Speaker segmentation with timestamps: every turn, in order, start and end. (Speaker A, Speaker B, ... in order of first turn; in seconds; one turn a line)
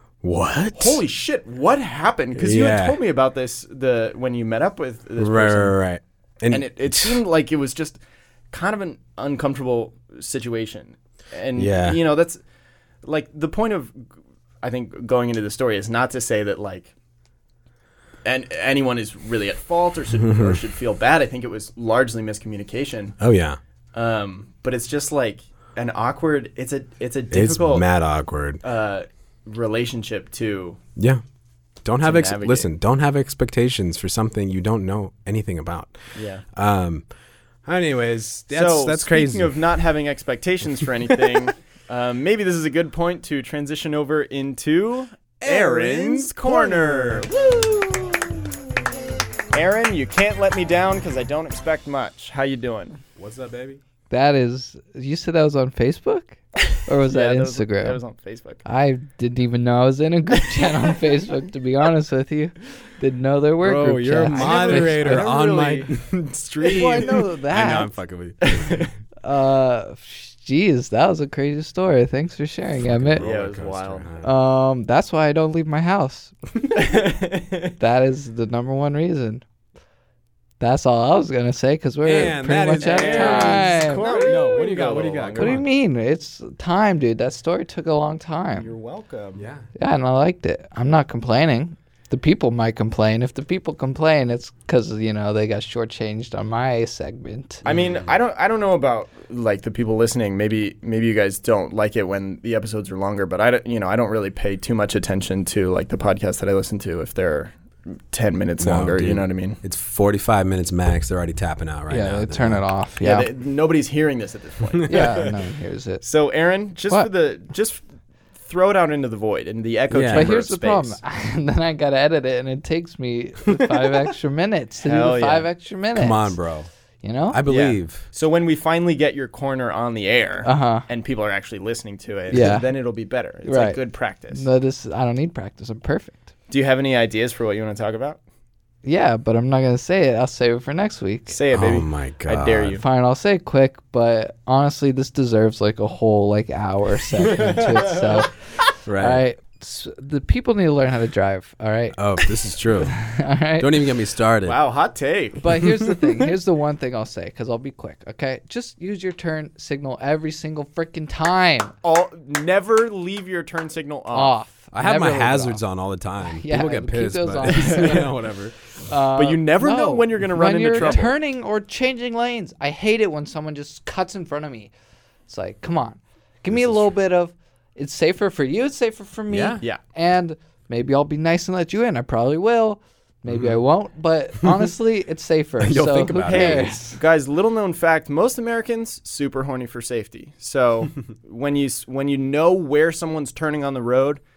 Speaker A: 0.2-1.0
Speaker B: 0.7-5.8
Speaker A: 2.4-3.0
Speaker A: 5.2-7.2
Speaker B: 6.5-8.0
Speaker B: 8.5-12.4
Speaker A: 11.6-12.0
Speaker B: 13.0-14.1
Speaker B: 14.6-16.9
Speaker B: 18.2-23.2
Speaker A: 20.1-20.6
Speaker A: 23.2-23.6
Speaker B: 23.9-27.9
Speaker A: 27.3-28.6
Speaker B: 28.6-30.8
Speaker A: 31.0-31.2
Speaker A: 31.8-36.0
Speaker B: 32.0-32.7
Speaker B: 36.1-36.4
Speaker A: 36.5-37.0
Speaker A: 37.6-39.5
Speaker B: 38.5-47.4
Speaker A: 41.1-41.4
Speaker A: 45.4-48.2
Speaker B: 49.5-53.0
Speaker A: 53.2-53.8
Speaker C: 54.1-58.0
Speaker B: 57.0-58.6
Speaker C: 58.6-65.3
Speaker A: 63.6-68.9
Speaker B: 64.3-65.9
Speaker B: 66.6-67.2
Speaker C: 66.7-67.9
Speaker B: 68.4-68.9
Speaker C: 69.2-73.2
Speaker A: 72.8-74.3
Speaker B: 73.2-74.1
Speaker C: 74.2-76.3
Speaker B: 76.7-77.8
Speaker C: 77.8-79.4
Speaker C: 80.6-84.3
Speaker A: 82.0-85.7
Speaker B: 82.8-85.6
Speaker C: 85.4-88.7
Speaker B: 88.5-89.5
Speaker A: 89.4-89.7
Speaker C: 89.8-97.7
Speaker B: 97.6-109.6
Speaker A: 97.7-98.1
Speaker A: 108.6-112.7
Speaker C: 111.9-113.3
Speaker B: 113.0-115.3
Speaker A: 114.7-115.3
Speaker C: 114.9-116.0
Speaker B: 116.0-117.8
Speaker B: 118.4-121.0
Speaker A: 119.9-120.3
Speaker C: 120.1-126.4
Speaker B: 124.8-125.5
Speaker A: 125.9-126.7
Speaker C: 127.0-127.4
Speaker A: 127.3-128.1
Speaker B: 127.5-134.4
Speaker C: 130.4-130.9
Speaker C: 132.3-132.7
Speaker C: 133.4-133.8
Speaker C: 134.3-136.3
Speaker B: 136.5-138.2
Speaker C: 138.8-141.4
Speaker B: 141.3-142.8
Speaker A: 141.5-142.8
Speaker C: 142.8-148.4
Speaker A: 147.2-148.2
Speaker B: 147.3-147.7
Speaker A: 148.9-149.2
Speaker C: 149.0-152.2
Speaker A: 151.9-153.0
Speaker C: 152.8-153.8
Speaker A: 153.6-154.6
Speaker B: 154.4-155.4
Speaker C: 155.4-161.8
Speaker A: 155.5-156.0
Speaker B: 161.8-164.4
Speaker C: 164.1-165.6
Speaker A: 164.7-168.6
Speaker C: 166.2-168.2
Speaker C: 168.8-174.7
Speaker B: 169.2-171.1
Speaker A: 170.8-171.1
Speaker C: 175.3-187.0
Speaker A: 176.5-176.9
Speaker A: 179.3-179.6
Speaker A: 183.3-183.6
Speaker A: 184.4-184.7
Speaker A: 185.6-186.7
Speaker B: 186.2-194.2